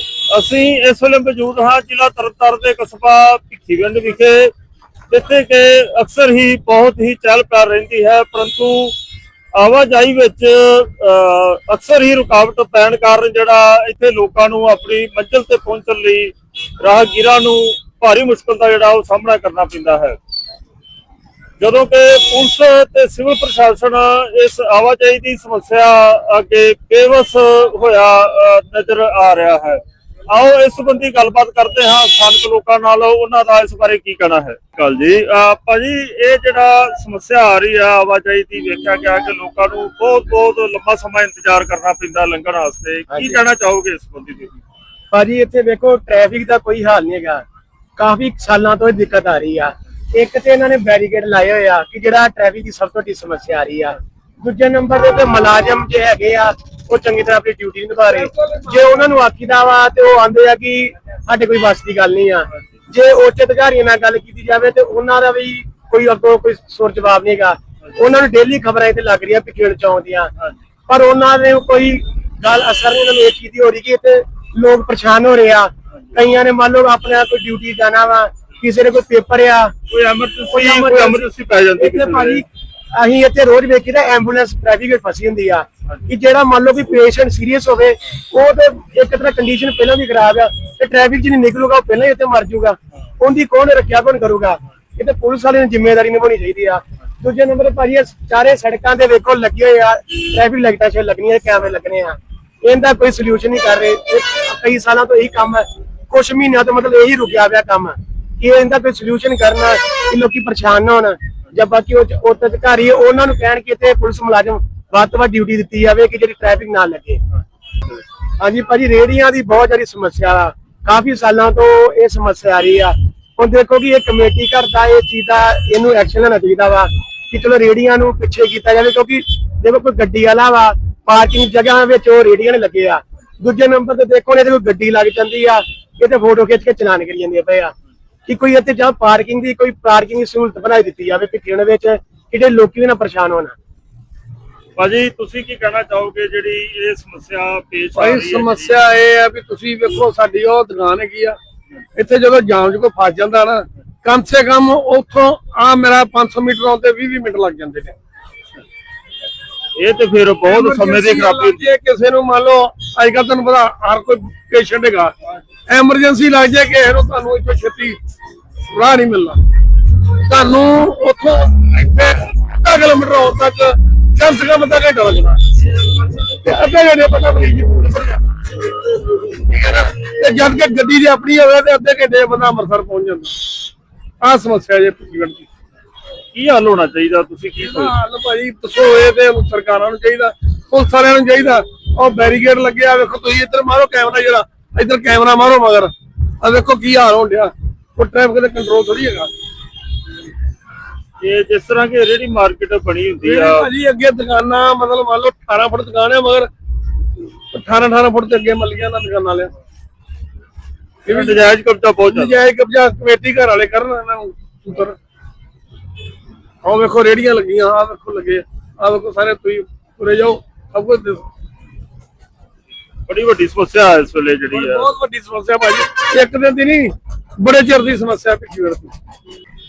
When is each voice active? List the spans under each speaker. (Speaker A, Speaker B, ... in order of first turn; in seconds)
Speaker A: 0.3-4.5, 5.1-8.9, 9.5-20.2, 21.6-44.5, 79.9-82.4, 144.8-148.8, 159.8-161.6, 186.3-188.0, 201.2-203.7, 211.1-212.4, 223.1-224.9
Speaker B: 43.1-43.4, 45.1-47.4, 48.0-70.3, 70.9-79.7, 80.5-117.2, 118.4-137.7, 138.3-143.6
Speaker C: 148.0-151.4, 152.0-157.9, 160.9-165.1, 165.7-168.0, 168.7-169.4, 170.3-175.4, 176.2-178.2, 179.4-183.3, 184.2-185.5, 187.6-199.3, 203.2-206.5, 207.5-209.5, 212.1-215.0, 216.6-221.2, 224.6-228.9